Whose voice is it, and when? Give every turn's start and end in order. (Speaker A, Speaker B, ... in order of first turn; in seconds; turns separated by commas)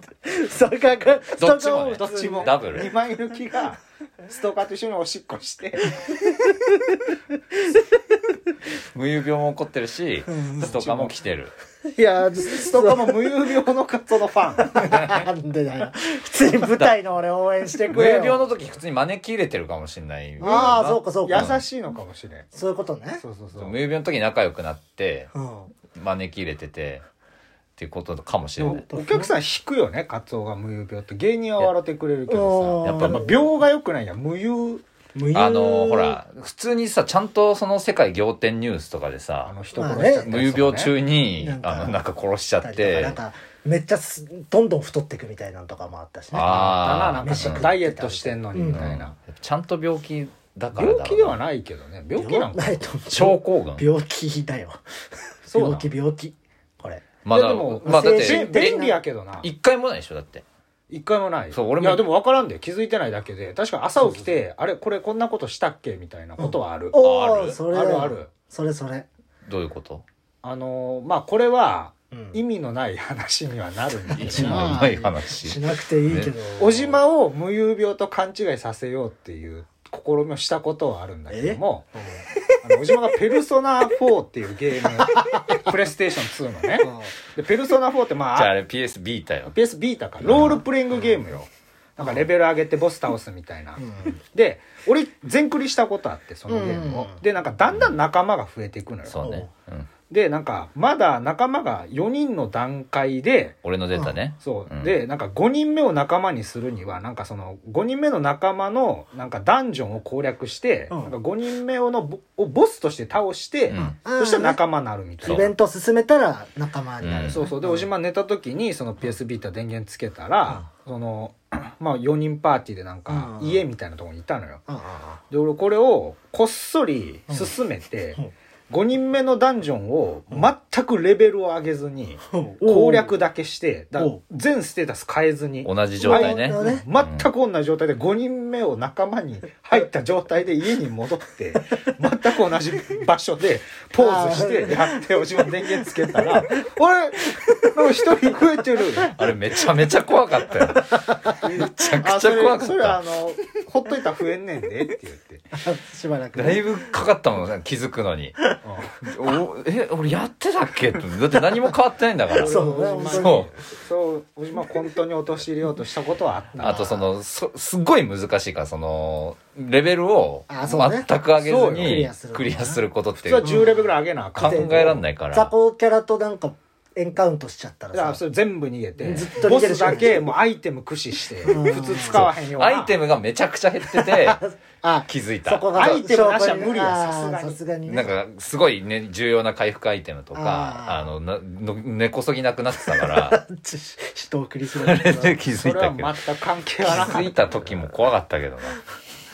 Speaker A: 0.2-2.5, Speaker B: 1.4-2.9, Speaker C: 1.9-6.2, Speaker A: 5.9-7.0, Speaker B: 8.9-11.5, Speaker A: 10.3-11.1, Speaker C: 10.8-11.1, Speaker A: 11.8-13.5, Speaker C: 12.4-15.0, Speaker A: 14.6-18.5, Speaker B: 17.9-21.6, Speaker A: 20.4-21.6, Speaker C: 20.4-22.5, Speaker A: 22.5-23.2, Speaker C: 23.2-23.8, Speaker B: 23.6-25.3, Speaker A: 25.3-25.7, Speaker B: 25.9-27.0, Speaker B: 27.8-28.8, Speaker A: 28.6-29.3, Speaker C: 28.6-34.8, Speaker A: 32.3-33.3, Speaker B: 32.8-33.3, Speaker A: 35.1-36.2, Speaker B: 35.3-39.5, Speaker C: 39.5-40.9, Speaker A: 39.7-40.3, Speaker B: 40.2-43.2, Speaker A: 41.4-42.0, Speaker A: 42.6-48.9, Speaker B: 46.3-47.7, Speaker C: 46.3-49.1, Speaker B: 48.7-51.4, Speaker C: 50.7-52.9, Speaker A: 52.1-54.8, Speaker B: 53.1-53.8, Speaker A: 55.4-57.0, Speaker C: 55.5-55.9, Speaker B: 57.2-58.9, Speaker C: 57.3-59.5, Speaker A: 57.8-59.0, Speaker B: 59.4-60.4, Speaker C: 60.9-67.0, Speaker B: 61.5-62.0, Speaker A: 66.4-69.1, Speaker B: 67.0-67.6, Speaker C: 67.7-68.3, Speaker B: 69.4-70.0, Speaker C: 70.4-74.8, Speaker A: 72.1-72.4, Speaker B: 74.2-76.3, Speaker A: 74.2-77.0, Speaker C: 76.6-81.9, Speaker A: 81.3-82.3, Speaker C: 82.4-88.5, Speaker A: 85.0-85.7, Speaker A: 86.8-87.1, Speaker B: 88.3-89.5, Speaker C: 89.5-99.2, Speaker B: 90.2-90.6, Speaker A: 92.0-92.3, Speaker A: 93.8-94.2, Speaker A: 96.5-97.2, Speaker B: 99.0-99.9, Speaker A: 99.2-99.5, Speaker C: 100.1-103.6, Speaker B: 103.6-105.0, Speaker C: 104.4-115.5, Speaker B: 113.7-114.0, Speaker A: 113.8-114.6, Speaker B: 115.2-115.5, Speaker A: 115.2-117.9, Speaker B: 117.0-117.5, Speaker C: 117.3-124.6, Speaker A: 123.1-123.6, Speaker A: 124.7-125.2, Speaker C: 125.3-149.1, Speaker A: 132.3-133.1, Speaker B: 135.6-137.3, Speaker A: 136.0-136.8, Speaker A: 144.0-145.0, Speaker A: 145.8-146.6, Speaker B: 149.1-153.0, Speaker A: 150.8-151.4, Speaker C: 151.4-155.5, Speaker A: 155.6-156.8, Speaker B: 156.3-158.4, Speaker C: 158.6-158.9, Speaker B: 159.0-163.5, Speaker C: 162.4-167.1, Speaker A: 162.4-163.5, Speaker B: 166.6-173.5, Speaker A: 170.5-171.1, Speaker C: 171.4-172.1, Speaker A: 171.8-172.8, Speaker C: 173.2-175.0, Speaker A: 173.4-173.7, Speaker B: 174.3-175.5, Speaker A: 174.3-178.2, Speaker C: 177.9-183.0, Speaker A: 179.0-180.3, Speaker A: 181.5-182.3, Speaker B: 181.9-184.4, Speaker A: 183.8-188.2, Speaker B: 185.1-185.7, Speaker C: 185.7-187.6, Speaker B: 187.9-193.4, Speaker A: 190.3-191.1, Speaker A: 192.8-195.4, Speaker B: 194.8-196.2, Speaker C: 195.5-197.6, Speaker B: 196.8-198.8